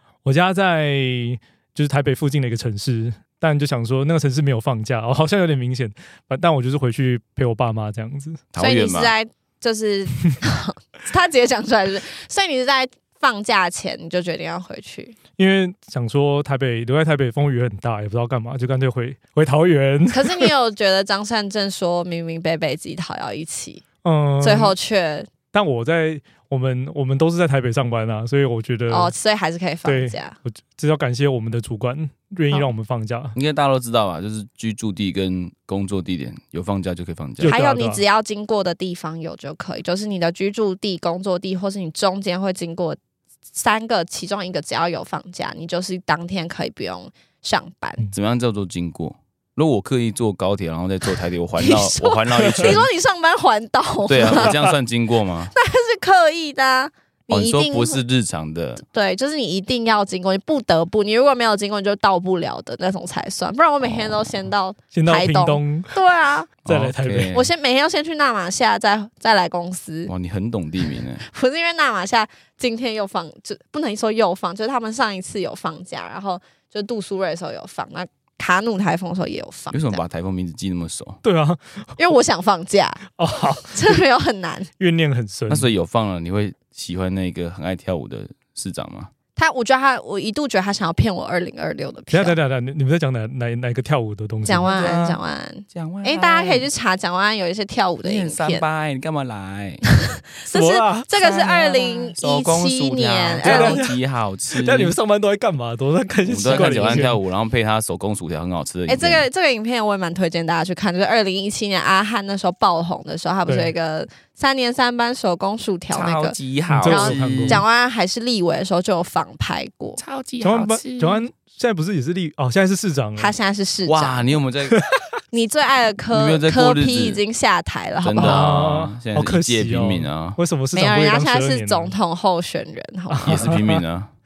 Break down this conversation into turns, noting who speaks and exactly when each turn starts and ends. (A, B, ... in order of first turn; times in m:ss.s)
0:00.2-0:08.4 A
0:08.5-0:09.1 B
0:08.6-0:15.2 C
0:15.4-0:20.5 A
0:20.1-0:23.8 C
0:24.0-0:24.8 A
0:24.4-0:25.3 C
0:25.5-0:29.1 A
0:28.9-0:30.4 C
0:29.8-0:33.4 A
0:33.4-0:37.5 B
0:37.4-0:38.0 A
0:37.5-0:43.0 C
0:43.5-0:48.0 C
0:48.1-0:52.9 B
0:51.6-0:54.5 C
0:52.5-0:52.8 A
0:54.1-0:55.5 B
0:54.3-0:54.7 A
0:55.5-0:58.0 C
0:57.3-0:58.8 B
0:58.8-1:06.5 C
1:03.8-1:04.4 B
1:04.9-1:06.0 A
1:06.6-1:07.5 B
1:06.7-1:07.3 A
1:07.3-1:10.1 C
1:10.1-1:11.2 B
1:11.2-1:20.0 C
1:19.7-1:21.2 B
1:21.2-1:22.0 A
1:22.0-1:23.0 C
1:23.2-1:24.0 A
1:23.7-1:24.7 C
1:24.8-1:25.7 A
1:25.5-1:29.1 B
1:29.4-1:32.4 C
1:32.1-1:34.7 A
1:34.4-1:38.6 C
1:34.6-1:35.2 B
1:35.7-1:36.7 B
1:38.0-1:39.8 B
1:40.0-1:43.8 C
1:40.5-1:41.1 A
1:41.1-1:45.0 B
1:43.4-1:44.0 A
1:44.5-1:47.2 A
1:46.2-1:49.2 B
1:46.5-1:47.0 C
1:48.9-1:56.4 C
1:53.5-1:53.7 A
1:55.9-1:57.6 B
1:56.7-1:57.6 A
1:56.9-2:00.0 C
2:00.0-2:01.2 B
2:00.4-2:03.3 A
2:03.2-2:04.3 C
2:03.9-2:04.8 B
2:05.3-2:08.4 C
2:06.1-2:07.2 B
2:08.0-2:10.4 B
2:08.2-2:12.0 A
2:10.7-2:13.5 C
2:13.1-2:13.8 A
2:13.2-2:14.1 B